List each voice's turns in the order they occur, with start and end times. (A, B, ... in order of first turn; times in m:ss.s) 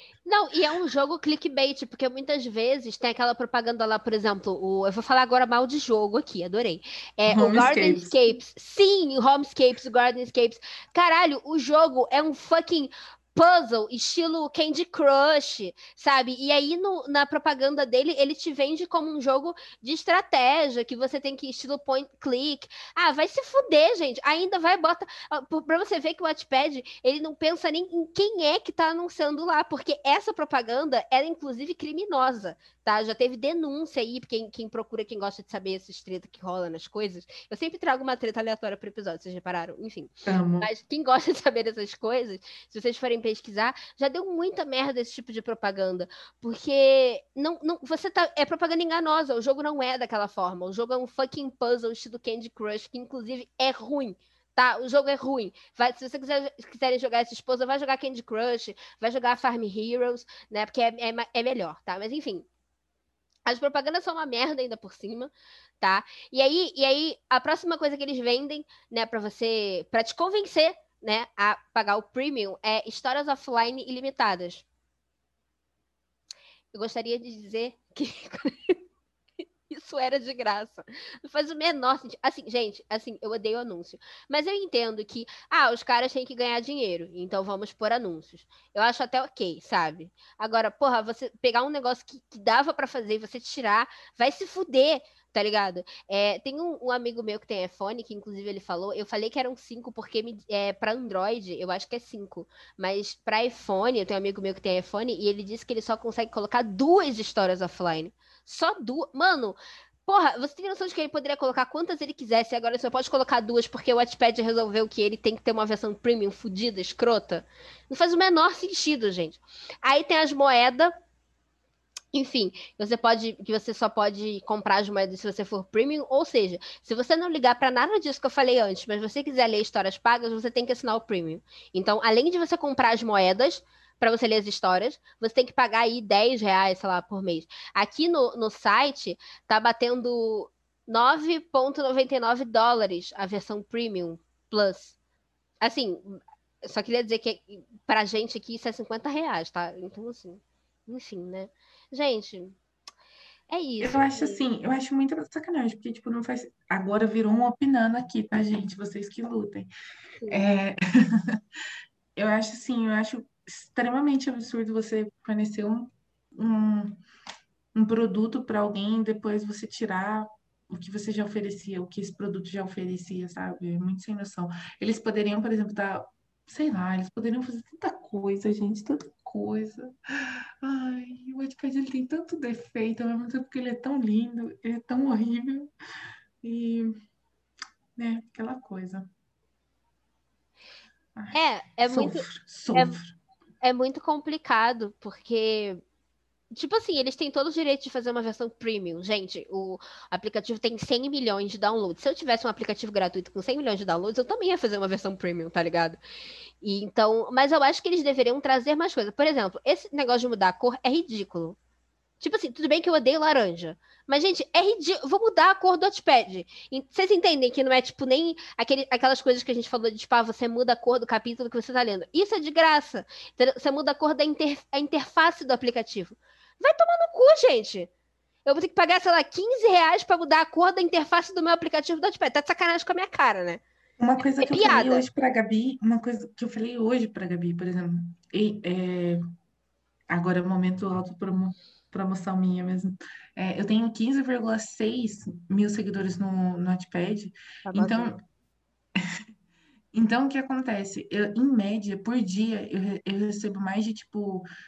0:00.2-1:02.4 A
0:07.3-0:08.4 B
0:40.2-0:40.7 B
1:03.5-1:14.6 A
1:16.7-1:18.8 A
1:19.7-2:00.9 A
2:02.1-2:25.0 A
2:25.6-2:32.6 A
2:33.5-2:34.4 A
2:33.8-2:39.7 B
2:40.2-2:40.5 A
2:40.3-2:40.8 B
2:42.2-2:47.0 B
2:47.7-3:05.7 B
3:06.4-3:06.9 B
3:08.0-3:09.1 B
3:11.2-3:13.2 B
3:11.3-3:13.0 A
3:13.6-3:15.8 A
3:16.5-3:26.0 A
3:26.6-3:31.6 A
3:32.2-3:47.9 A
3:48.4-3:53.6 A
3:54.0-3:59.2 B
3:54.4-3:55.0 A
4:00.1-4:08.2 B
4:07.6-4:08.1 A
4:09.9-4:14.5 B